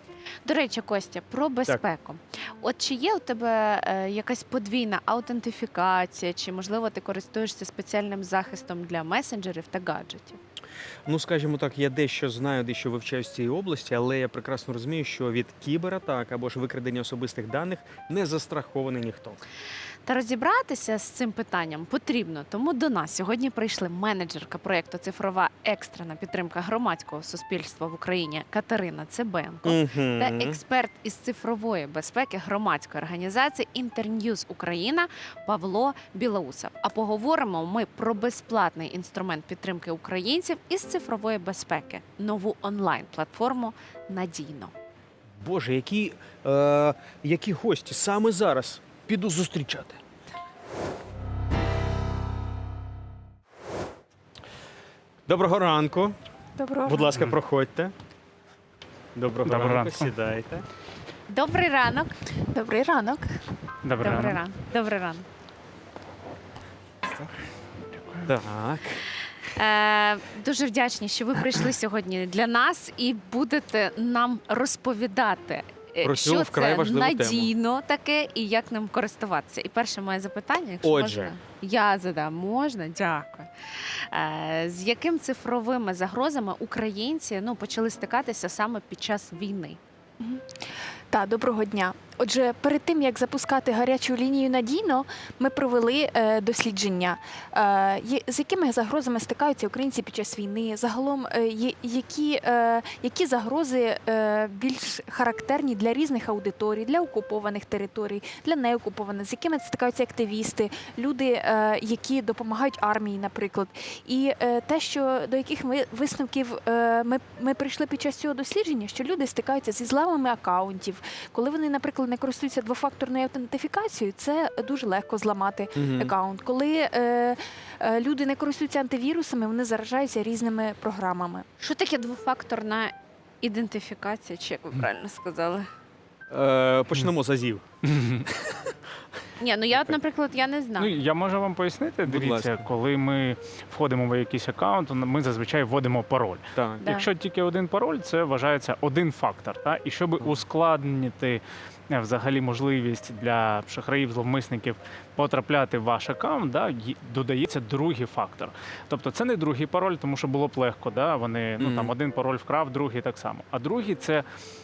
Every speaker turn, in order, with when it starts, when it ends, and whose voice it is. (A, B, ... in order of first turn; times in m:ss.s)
0:00.4-0:10.4 A
0:11.0-0:19.4 B
0:20.0-0:44.7 A
0:29.6-0:30.6 B
0:45.4-0:50.0 B
0:55.3-0:56.2 B
0:56.6-0:57.1 C
0:56.8-0:57.9 B
0:59.1-1:00.6 B
0:59.4-1:00.1 D
1:01.3-1:02.1 A
1:02.5-1:03.4 C
1:03.8-1:04.4 D
1:04.0-1:05.2 A
1:08.2-1:09.0 B
1:09.5-1:23.5 A
1:16.0-1:17.5 B
1:20.8-1:21.3 B
1:24.1-1:29.8 A
1:31.1-2:11.4 C
2:05.8-2:06.1 B
2:11.6-2:15.6 A
2:16.3-2:17.6 B
2:17.8-2:18.3 D
2:18.4-2:18.7 B
2:19.4-2:20.9 A
2:20.8-2:44.2 D
2:22.0-2:22.6 B
2:26.6-2:26.9 B
2:41.6-2:41.9 B